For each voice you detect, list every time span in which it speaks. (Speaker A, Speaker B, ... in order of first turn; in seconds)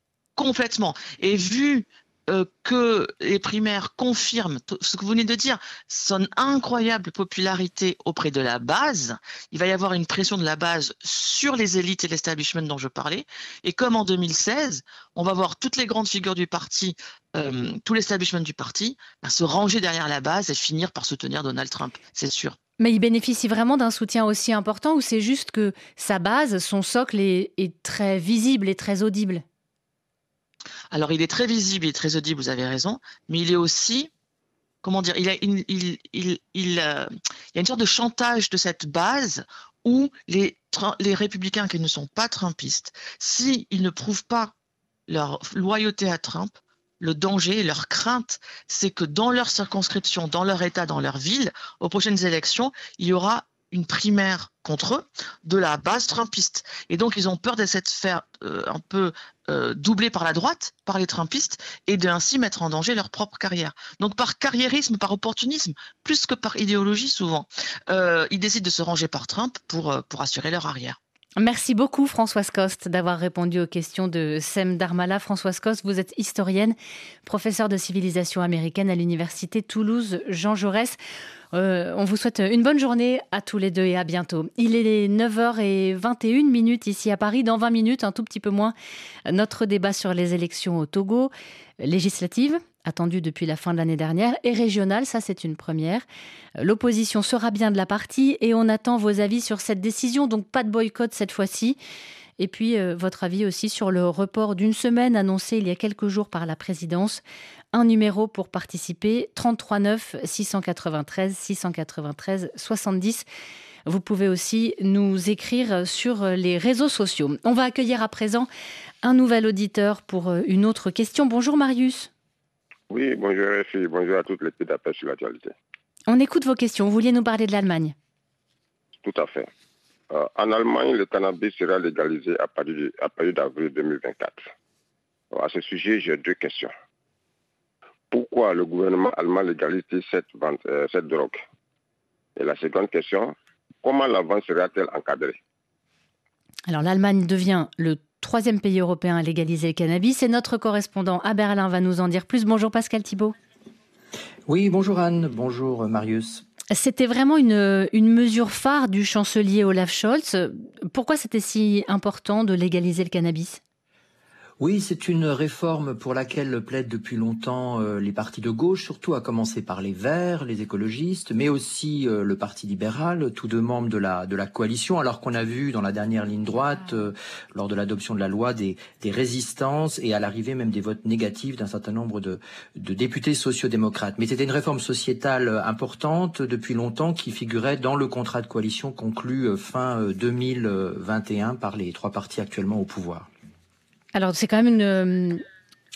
Speaker A: 0.4-22.6, 30.9-34.1, 34.8-44.5, 45.1-71.0
Speaker B: 22.8-29.4, 71.4-81.0, 81.5-88.7, 89.3-96.0, 96.6-101.8, 102.4-113.2, 113.8-118.5, 119.0-122.1, 126.1-127.9, 146.7-153.3, 156.7-163.6, 194.1-195.4
Speaker C: 122.9-125.5, 129.0-129.5, 130.1-134.5, 135.3-136.7, 138.1-141.4, 142.3-145.4
Speaker D: 154.5-156.4, 164.6-193.3